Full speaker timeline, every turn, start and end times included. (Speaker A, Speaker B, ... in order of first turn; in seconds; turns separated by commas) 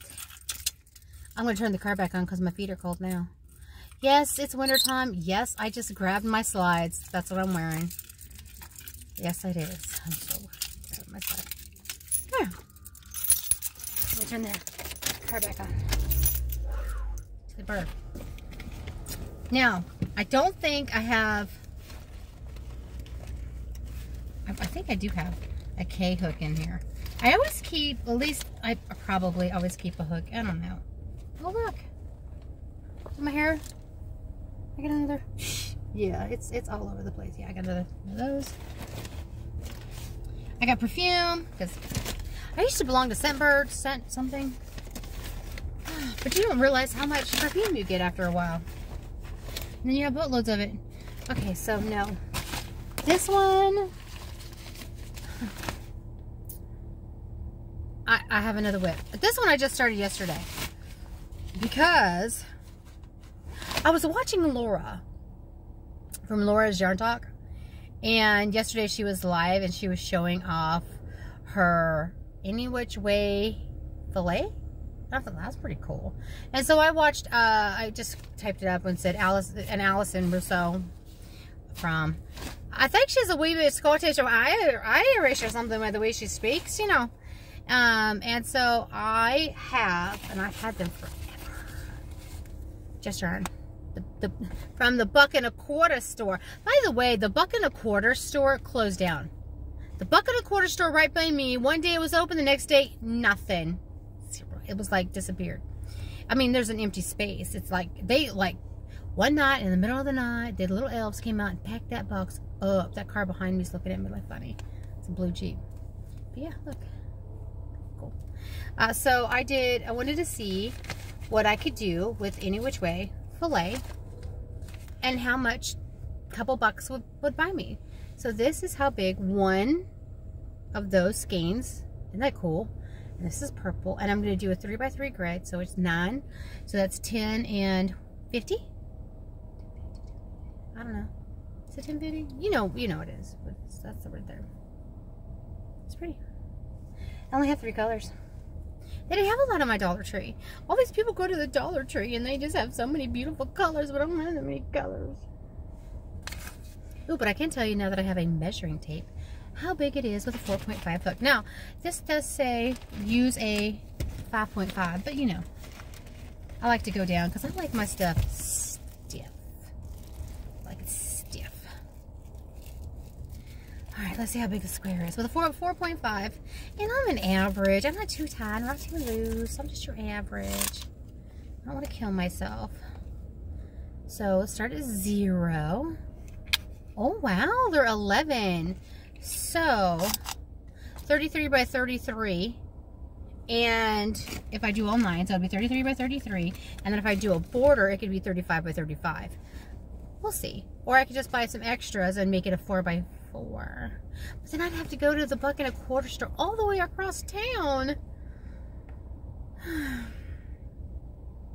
Speaker A: 1.3-3.3, Speaker A: 4.0-7.9, Speaker A: 9.2-11.5, Speaker A: 12.3-12.5, Speaker A: 14.1-15.9, Speaker A: 17.5-17.9, Speaker A: 19.5-21.6, Speaker A: 24.4-30.8, Speaker A: 31.4-31.9, Speaker A: 33.1-33.6, Speaker A: 34.8-38.5, Speaker A: 40.6-41.8, Speaker A: 42.5-44.6, Speaker A: 45.8-48.6, Speaker A: 49.8-52.2, Speaker A: 53.0-53.9, Speaker A: 58.0-60.5, Speaker A: 61.5-62.4, Speaker A: 63.8-65.0, Speaker A: 66.2-67.3, Speaker A: 68.0-74.5, Speaker A: 75.1-80.9, Speaker A: 81.7-87.1, Speaker A: 87.7-92.0, Speaker A: 93.0-99.3, Speaker A: 100.0-105.6, Speaker A: 106.3-108.6, Speaker A: 109.1-115.6, Speaker A: 116.3-116.9, Speaker A: 118.8-120.8, Speaker A: 121.3-123.8, Speaker A: 125.0-125.8, Speaker A: 126.3-129.9, Speaker A: 130.7-138.7, Speaker A: 139.7-140.1, Speaker A: 140.7-141.1, Speaker A: 141.7-144.5, Speaker A: 145.8-146.2, Speaker A: 147.3-148.1, Speaker A: 149.1-155.2, Speaker A: 157.1-165.4, Speaker A: 166.6-169.7, Speaker A: 170.6-171.7, Speaker A: 173.9-180.9, Speaker A: 181.6-182.8, Speaker A: 184.1-186.0, Speaker A: 186.9-190.2, Speaker A: 191.1-192.6, Speaker A: 193.5-199.4, Speaker A: 200.2-208.0, Speaker A: 209.6-210.1